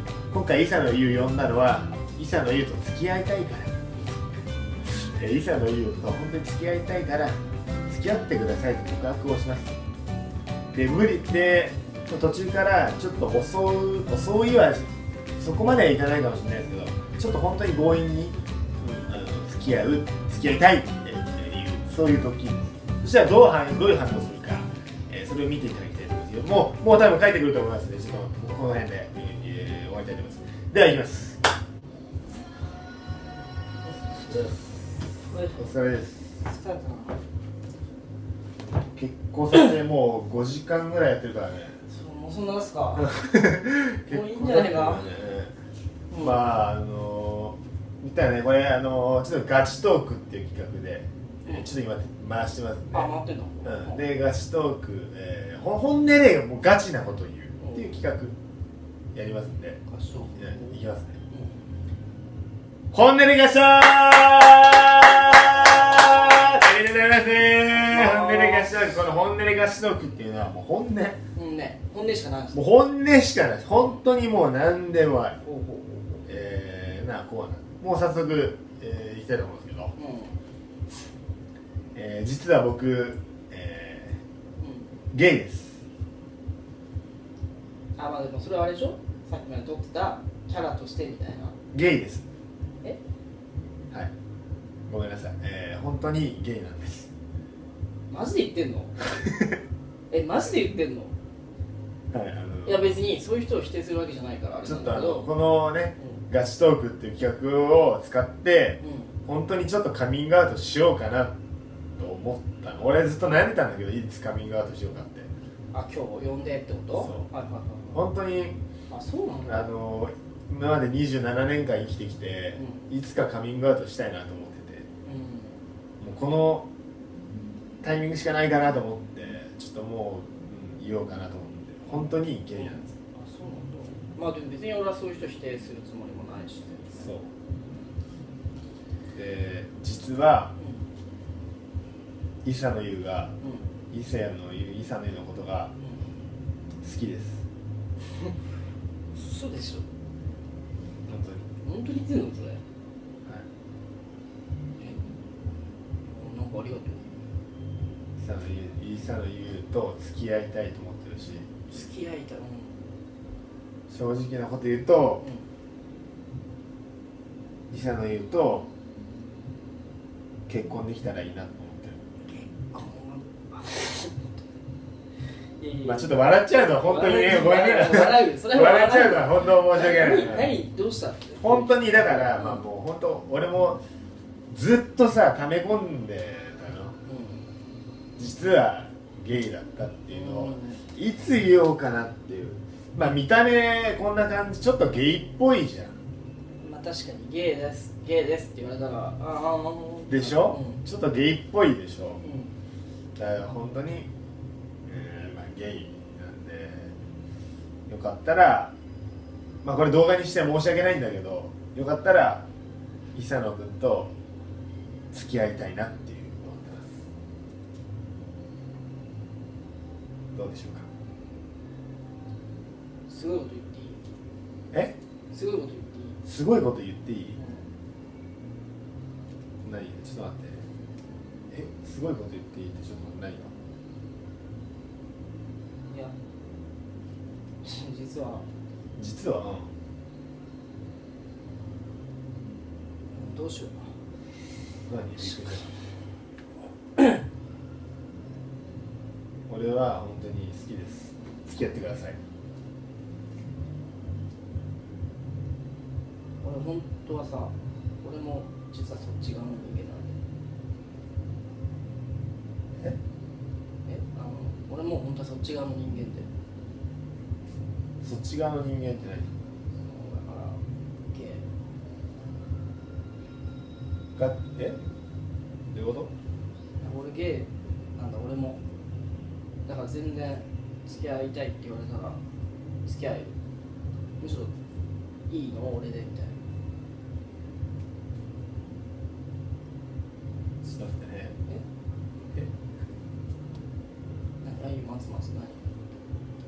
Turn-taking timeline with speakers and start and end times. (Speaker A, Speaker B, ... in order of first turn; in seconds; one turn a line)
Speaker A: 0.3-3.7
Speaker A: 4.8-7.4
Speaker A: 7.9-9.7
Speaker A: 10.7-31.4
Speaker B: 34.1-34.5
Speaker A: 34.2-36.4
Speaker B: 35.2-35.6
Speaker B: 36.4-37.2
Speaker A: 38.9-41.8
Speaker B: 41.9-43.1
Speaker A: 43.0-45.5
Speaker B: 44.0-45.1
Speaker B: 46.1-46.5
Speaker A: 46.1-53.1
Speaker B: 52.9-54.0
Speaker A: 53.6-58.3
Speaker B: 57.6-57.9
Speaker A: 59.1-59.8
Speaker B: 59.9-60.7
Speaker A: 60.3-61.2
Speaker B: 61.3-61.7
Speaker A: 62.9-71.2
Speaker B: 67.8-68.8
Speaker B: 71.3-72.6
Speaker A: 72.5-75.4
Speaker B: 75.4-76.3
Speaker A: 76.2-79.9
Speaker B: 80.0-80.4
Speaker A: 81.9-84.2
Speaker B: 84.6-85.0
Speaker A: 85.1-85.8
Speaker B: 88.0-91.5
Speaker A: 91.7-92.2
Speaker A: 94.9-97.1
Speaker B: 98.1-99.0
Speaker B: 100.1-101.1
Speaker A: 102.1-103.0
Speaker B: 102.6-105.3
Speaker A: 104.6-111.3
Speaker B: 108.8-109.1
Speaker A: 112.0-115.3
Speaker B: 115.7-118.0
Speaker A: 117.0-117.3
Speaker A: 117.9-118.6
Speaker B: 118.9-119.7
Speaker A: 119.5-124.8
Speaker B: 122.5-122.9
Speaker B: 125.0-125.6
Speaker A: 126.0-126.7
Speaker A: 127.8-132.9
Speaker B: 132.5-137.1
Speaker A: 136.9-137.3
Speaker A: 139.1-140.5
Speaker B: 140.6-140.8
Speaker A: 142.4-143.3
Speaker B: 143.4-143.7
Speaker A: 143.9-145.7
Speaker B: 145.8-146.1
Speaker A: 146.8-147.4
Speaker B: 149.1-149.8
Speaker A: 151.1-151.5
Speaker B: 151.6-152.6
Speaker B: 154.8-155.1
Speaker B: 156.0-157.1
Speaker A: 158.2-161.8
Speaker B: 161.7-162.9
Speaker A: 163.9-165.2
Speaker B: 165.2-165.4
Speaker A: 167.7-168.7
Speaker A: 170.5-172.0
Speaker B: 172.2-174.4
Speaker B: 175.6-176.1
Speaker A: 175.8-180.5
Speaker B: 176.8-182.6
Speaker A: 181.4-183.8
Speaker A: 184.5-186.9
Speaker B: 187.0-187.5
Speaker A: 188.2-196.0
Speaker B: 190.1-190.8
Speaker B: 196.6-200.8
Speaker A: 200.1-202.2
Speaker B: 202.2-202.5
Speaker A: 203.2-204.1
Speaker A: 204.8-206.9
Speaker A: 207.9-208.7
Speaker A: 209.6-212.4
Speaker A: 213.1-214.1
Speaker A: 215.1-217.0
Speaker A: 220.3-220.9
Speaker B: 223.1-224.0
Speaker B: 225.3-226.2
Speaker A: 226.2-227.4
Speaker B: 227.4-227.6
Speaker A: 229.6-230.6
Speaker A: 231.5-233.5
Speaker B: 235.9-236.1
Speaker B: 237.6-238.5
Speaker A: 239.0-239.7
Speaker B: 243.1-243.9
Speaker A: 244.9-245.7
Speaker B: 245.2-245.7
Speaker A: 249.5-252.2
Speaker B: 256.4-260.2
Speaker B: 263.8-266.3
Speaker A: 268.0-269.3
Speaker B: 269.8-271.4
Speaker A: 274.1-274.8
Speaker A: 275.7-276.1
Speaker B: 276.8-278.6
Speaker B: 279.6-282.2
Speaker B: 282.8-283.3
Speaker B: 284.2-284.5
Speaker B: 285.3-286.4
Speaker A: 290.6-291.4
Speaker B: 294.4-295.6